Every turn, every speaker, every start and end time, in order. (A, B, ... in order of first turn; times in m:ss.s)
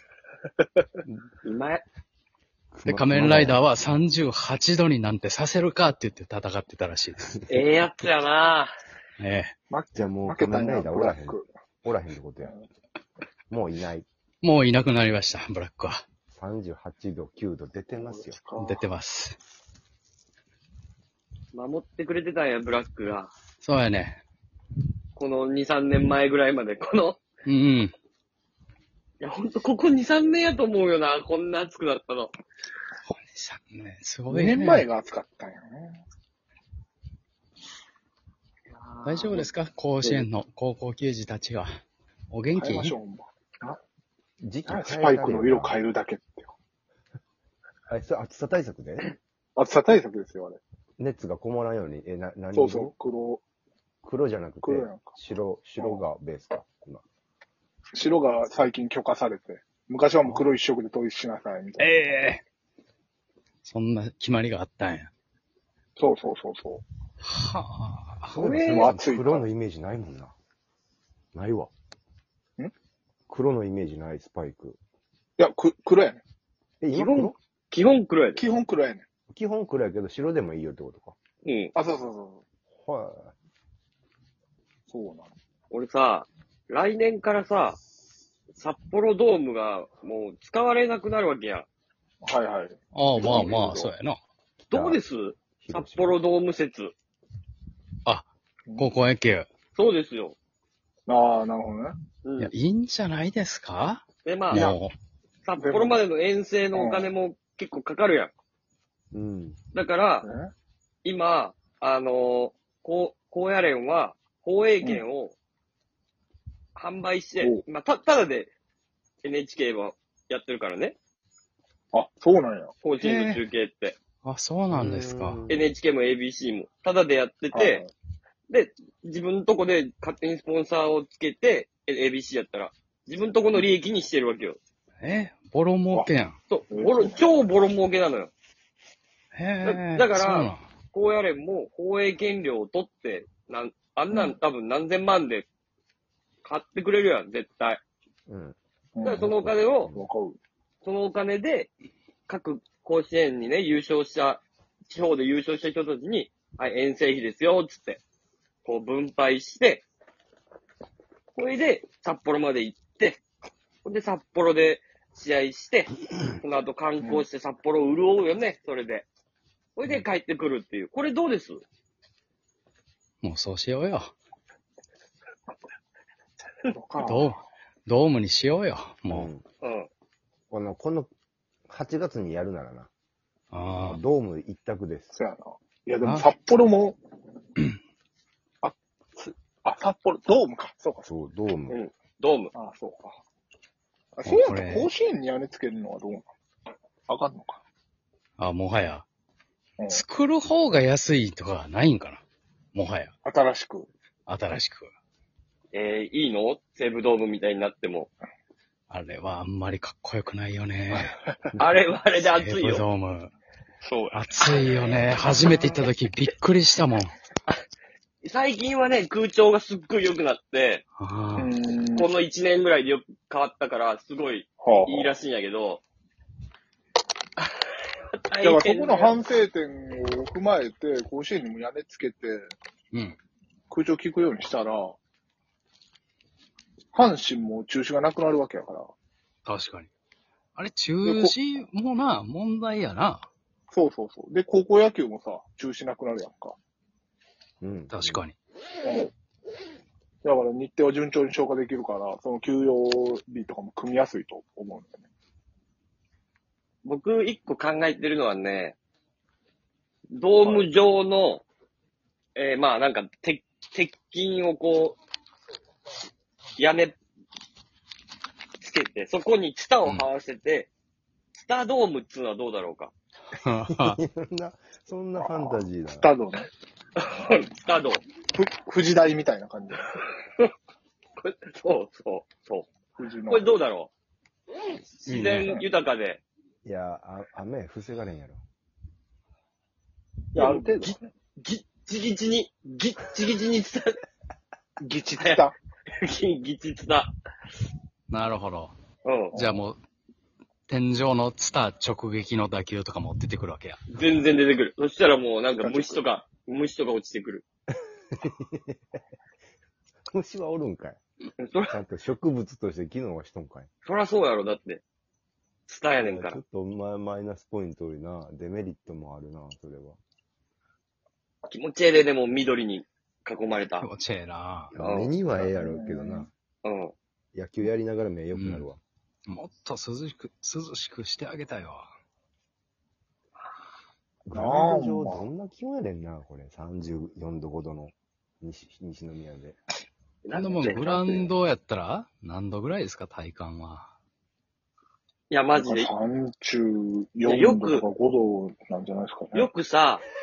0:01.4-0:01.8 A
0:02.7-0:03.6 B
0:02.9-0:07.4 C
0:07.5-0:08.7 A
0:09.2-0:09.5 C
0:09.7-0:11.5 D
0:10.0-0:12.6 B
0:13.5-0:14.1 B
0:14.4-0:16.0 C
0:16.3-0:18.4 B
0:18.0-0:18.9 D
0:18.6-0:19.4 C
0:21.5-0:23.3 A
0:23.6-0:24.2 C
0:25.2-0:27.2 A
0:27.5-0:27.9 C
0:29.2-0:32.3 A
0:33.1-0:34.9 C
0:34.3-0:36.0 D
0:38.7-0:39.5 A
0:39.0-0:41.8 C
0:42.3-0:43.0 C
0:42.5-0:43.8 D
0:44.4-0:45.8 B
0:44.7-0:46.5 D
0:47.9-0:49.1 B
0:49.6-0:50.6 D
0:51.0-0:52.9 B
0:52.5-0:53.4 D
0:54.0-0:57.0 B
0:54.6-0:55.2 D
0:55.8-0:56.0 D
0:57.9-1:02.2 D
1:01.8-1:02.4 C
1:03.6-1:05.1 C
1:06.0-1:06.8 D
1:07.2-1:08.7 C
1:08.3-1:10.4 B
1:08.4-1:08.8 A
1:08.6-1:09.5 D
1:11.3-1:11.7 B
1:13.3-1:14.8 B
1:15.4-1:16.2 D
1:16.8-1:17.4 B
1:16.9-1:18.4 A
1:18.4-1:19.1 D
1:19.3-1:21.2 B
1:21.4-1:21.7 A
1:21.8-1:22.4 D
1:22.7-1:23.4 B
1:24.9-1:25.3 D
1:25.7-1:27.8 A
1:28.5-1:31.7 A
1:32.2-1:33.9 D
1:32.9-1:34.2 C
1:34.7-1:35.0 B
1:34.7-1:36.9 A
1:35.6-1:36.2 B
1:38.0-1:39.5 C
1:39.8-1:40.4 A
1:41.1-1:42.0 D
1:42.2-1:42.5 A
1:42.4-1:44.9 C
1:44.2-1:44.7 A
1:44.5-1:44.8 D
1:45.4-1:48.3 A
1:45.6-1:46.0 D
1:46.7-1:47.1 D
1:49.1-1:49.6 B
1:49.7-1:50.3 A
1:50.2-1:50.5 D
1:51.0-1:55.4 A
1:56.8-1:58.5 A
1:57.4-1:57.6 D
1:59.2-2:01.0 A
2:01.9-2:02.8 D
2:02.8-2:04.0 A
2:03.0-2:03.4 C
2:04.2-2:05.4 C
2:04.7-2:05.7 B
2:05.5-2:07.8 A
2:07.5-2:07.9 D
2:08.5-2:14.6 A
2:15.0-2:16.4 C
2:16.5-2:18.3 A
2:16.7-2:17.3 D
2:19.3-2:20.6 C
2:19.6-2:25.5 A
2:26.4-2:27.8 A
2:28.3-2:28.6 B
2:29.0-2:29.3 D
2:29.0-2:29.9 A
2:29.2-2:30.1 B
2:29.9-2:30.4 D
2:30.8-2:31.7 A
2:32.3-2:38.0 A
2:38.6-2:39.9 A
2:41.3-2:43.2 A
2:43.8-2:49.1 A
2:49.8-2:51.6 A
2:53.2-2:54.1 C
2:56.7-2:57.4 D
2:57.0-2:59.3 C
2:59.1-2:59.4 B
2:59.6-2:59.9 A
3:00.5-3:01.1 B
3:01.7-3:02.9 B
3:03.5-3:04.0 C
3:03.8-3:05.1 B
3:05.2-3:07.0 D
3:06.0-3:06.3 C
3:08.6-3:11.1 D
3:11.0-3:11.8 B
3:11.7-3:12.5 A
3:12.5-3:13.2 D
3:14.2-3:16.3 D
3:14.2-3:14.9 C
3:17.1-3:17.6 D
3:18.4-3:19.1 C
3:19.9-3:22.2 C
3:22.7-3:23.1 C
3:23.2-3:23.9 D
3:24.3-3:24.9 C
3:25.7-3:28.1 A
3:28.9-3:31.2 C
3:31.6-3:32.9 A
3:32.4-3:33.3 C
3:33.8-3:34.7 D
3:34.1-3:37.1 C
3:38.2-3:40.8 A
3:41.0-3:41.5 C
3:41.4-3:42.1 D
3:41.9-3:45.8 A
3:44.6-3:45.2 D
3:47.4-3:47.7 A
3:48.2-3:49.2 A
3:48.4-3:52.4 D
3:53.7-3:55.0 D
3:56.9-3:58.9 D
3:59.4-3:59.9 C
4:00.6-4:03.3 C
4:01.0-4:01.4 D
4:03.7-4:06.6 D
4:07.6-4:08.2 B
4:07.9-4:08.4 C
4:08.8-4:09.1 D
4:10.2-4:15.0 D
4:16.8-4:18.8 A
4:20.1-4:21.4 A
4:20.4-4:20.7 D
4:22.4-4:25.0 A
4:26.6-4:27.0 A
4:28.6-4:30.7 A
4:31.4-4:32.9 A
4:33.4-4:34.0 C
4:33.7-4:36.1 B
4:35.2-4:36.5 D
4:37.0-4:38.0 A
4:38.3-4:39.9 D
4:41.2-4:42.7 A
4:43.0-4:43.6 D
4:43.3-4:43.9 A
4:45.0-4:46.2 A
4:45.1-4:45.6 C
4:46.6-4:48.4 B
4:50.3-4:51.1 D
4:50.4-4:54.0 A
4:54.8-4:55.6 D
4:55.2-4:57.1 A
4:58.1-4:58.7 C
4:59.0-4:59.4 A
4:59.3-4:59.6 D
4:59.4-4:59.8 C
5:00.7-5:03.8 C
5:03.9-5:07.4 A
5:05.6-5:06.0 D
5:08.1-5:09.0 B
5:10.1-5:11.0 B
5:11.4-5:11.8 A
5:11.7-5:13.7 B
5:13.8-5:14.8 A
5:15.7-5:16.4 A
5:16.0-5:20.0 B
5:21.5-5:23.9 A
5:23.8-5:24.7 C
5:24.7-5:26.3 B
5:24.8-5:25.1 A
5:25.4-5:26.3 D
5:26.6-5:26.9 A
5:27.3-5:28.8 B
5:28.3-5:28.7 C
5:29.3-5:31.9 C
5:34.3-5:39.6 B
5:34.4-5:35.3 D
5:40.2-5:41.3 A
5:40.4-5:43.9 C
5:45.3-5:45.9 A
5:45.5-5:49.5 D
5:47.2-5:47.8 A
5:49.3-5:50.0 A